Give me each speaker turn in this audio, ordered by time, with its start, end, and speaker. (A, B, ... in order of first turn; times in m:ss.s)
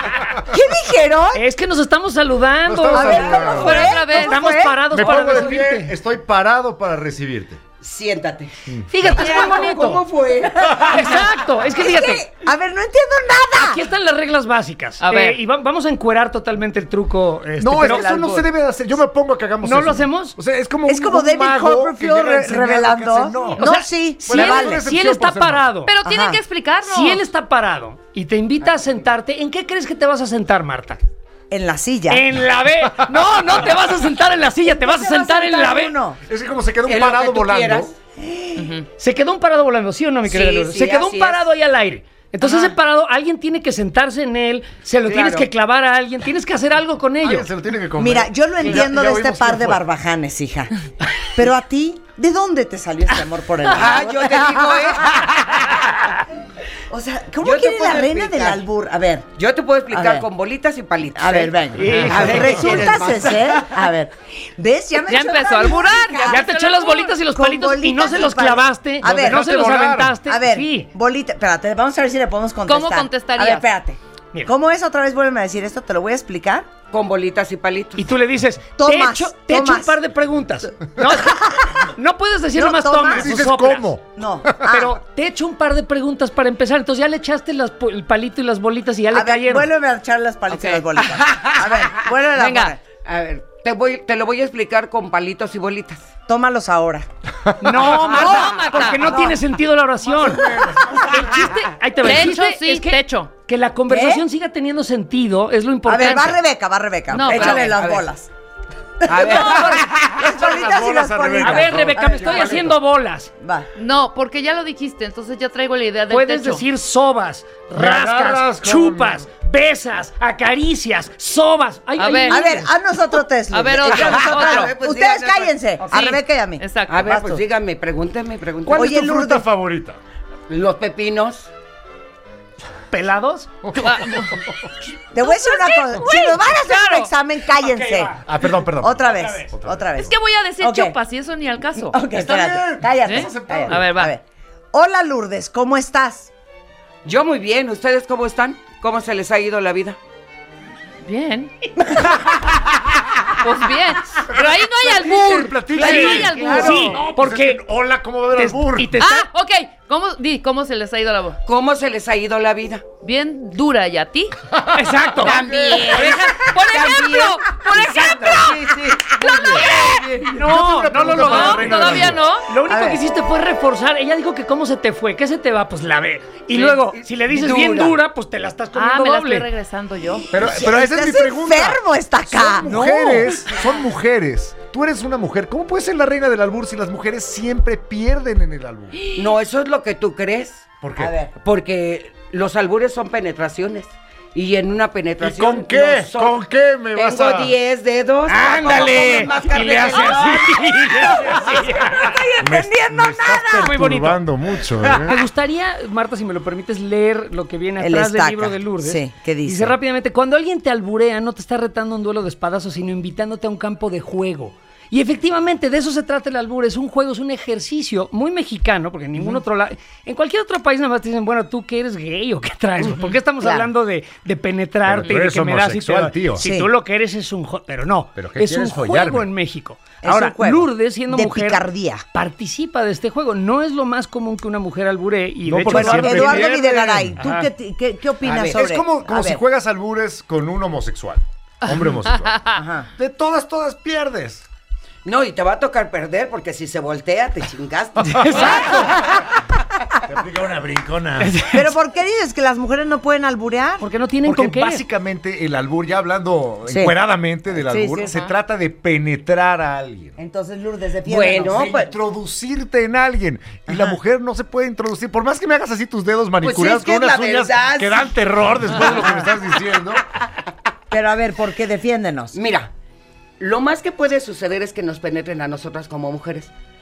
0:00.4-0:01.4 A
0:01.3-0:05.9 B
0:02.6-0:04.0 C
0:02.9-0:04.9 A
0:03.1-0:03.6 D
0:03.4-0:04.5 E
0:04.9-0:07.6 C
0:05.0-0:05.4 E
0:07.8-0:11.0 D
0:08.9-0:10.0 B
0:10.6-0:11.1 A
0:10.9-0:12.2 B
0:11.6-0:13.9 A
0:13.5-0:18.4 B
0:15.0-0:15.4 E
0:17.6-0:23.6 C
0:17.8-0:18.4 A
0:19.6-0:20.4 B
0:20.8-0:24.8 A
0:23.5-0:25.9 B
0:24.2-0:25.7 C
0:25.8-0:27.2 E
0:26.0-0:26.4 A
0:26.8-0:31.0 B
0:31.5-0:32.3 A
0:32.1-0:36.0 B
0:33.1-0:33.7 C
0:34.6-0:36.2 A
0:36.2-0:37.9 C
0:36.8-0:37.9 D
0:38.2-0:38.8 A
0:38.6-0:38.8 E
0:39.0-0:47.5 B
0:40.2-0:41.5 D
0:42.4-0:42.7 D
0:45.0-0:45.5 D
0:47.2-0:49.8 C
0:48.0-0:55.2 A
0:53.7-0:56.1 D
0:56.9-0:59.2 A
0:57.4-0:58.6 D
0:59.4-1:03.8 D
0:59.9-1:00.2 A
1:01.1-1:06.4 A
1:01.8-1:02.7 B
1:05.1-1:07.1 E
1:06.2-1:10.9 B
1:07.3-1:09.5 A
1:09.0-1:10.2 C
1:10.2-1:16.7 A
1:12.6-1:13.6 E
1:16.9-1:18.0 D
1:18.0-1:23.9 B
1:18.8-1:20.0 A
1:21.1-1:21.9 A
1:22.5-1:23.3 A
1:23.1-1:24.0 C
1:24.1-1:25.0 A
1:24.7-1:29.7 B
1:29.1-1:32.8 A
1:30.5-1:30.8 E
1:31.0-1:32.0 D
1:32.3-1:32.7 E
1:33.0-1:36.1 D
1:36.3-1:37.0 A
1:37.6-1:46.4 B
1:37.9-1:39.4 A
1:38.0-1:39.1 E
1:40.1-1:41.4 C
1:40.4-1:40.7 A
1:42.0-1:43.3 E
1:43.9-1:44.2 A
1:45.8-1:48.3 A
1:47.1-1:47.7 E
1:47.2-1:48.1 D
1:49.0-1:52.6 A
1:49.0-1:49.9 D
1:49.3-1:52.7 C
1:51.4-1:53.3 B
1:53.4-1:53.7 A
1:53.7-1:56.6 E
1:56.1-2:02.7 B
1:57.8-1:59.2 C
2:02.0-2:02.4 E
2:02.3-2:07.4 A
2:03.5-2:04.7 E
2:03.8-2:05.5 D
2:05.8-2:06.1 B
2:05.9-2:07.0 E
2:06.9-2:08.9 D
2:08.6-2:10.0 C
2:08.7-2:09.4 A
2:10.5-2:11.5 D
2:12.9-2:13.5 B
2:13.6-2:14.7 C
2:13.8-2:14.4 E
2:15.1-2:21.0 A
2:15.2-2:17.1 E
2:17.6-2:18.2 B
2:18.2-2:20.1 C
2:19.2-2:19.5 B
2:20.0-2:22.0 E
2:21.7-2:24.2 A
2:22.1-2:23.9 C
2:23.0-2:24.1 E
2:24.7-2:26.3 A
2:27.0-2:30.0 D
2:31.0-2:31.5 E
2:33.4-2:37.1 E
2:34.3-2:39.0 C
2:35.8-2:37.6 B
2:38.3-2:39.3 B
2:39.0-2:41.4 E
2:41.4-2:42.9 D
2:43.0-2:44.4 E
2:44.5-2:46.4 C
2:44.7-2:45.4 B
2:45.2-2:49.1 D
2:45.2-2:50.2 E
2:48.0-2:48.3 A
2:48.6-2:52.3 C
2:50.2-2:59.5 B
2:51.2-2:52.5 E
2:52.6-2:53.0 A
2:56.5-2:58.0 D
2:58.7-3:00.3 E
3:00.3-3:03.5 A
3:00.3-3:09.0 C
3:08.9-3:09.3 E
3:09.1-3:10.6 D
3:10.8-3:11.1 C
3:11.0-3:11.3 A
3:11.4-3:16.4 D
3:15.2-3:17.5 C
3:16.9-3:20.6 D
3:18.3-3:22.1 B
3:21.0-3:23.8 A
3:22.4-3:25.2 C
3:23.5-3:24.2 B
3:25.0-3:57.5 B
3:27.8-3:29.8 A
3:39.2-3:39.4 A
3:43.4-3:43.7 A
3:44.8-3:46.4 C
3:46.4-3:46.7 A
3:48.2-3:49.3 C
3:50.0-3:52.0 A
3:55.4-3:57.2 C
3:55.7-3:59.4 A
3:58.2-3:58.6 D
3:58.5-4:02.4 C
4:01.6-4:02.6 E
4:02.6-4:02.9 A
4:03.0-4:04.4 C
4:05.0-4:08.8 D
4:08.2-4:09.3 B
4:08.2-4:08.8 C
4:10.0-4:11.4 C
4:11.2-4:11.7 B
4:11.5-4:13.8 A
4:13.8-4:14.8 B
4:14.2-4:20.2 C
4:16.7-4:16.9 A
4:17.6-4:18.1 A
4:18.0-4:18.4 E
4:20.2-4:21.7 A
4:21.0-4:21.9 D
4:21.4-4:30.0 C
4:23.7-4:24.0 A
4:26.4-4:28.1 D
4:29.0-4:29.3 A
4:30.9-4:32.3 A
4:32.3-4:32.7 D
4:33.4-4:36.5 D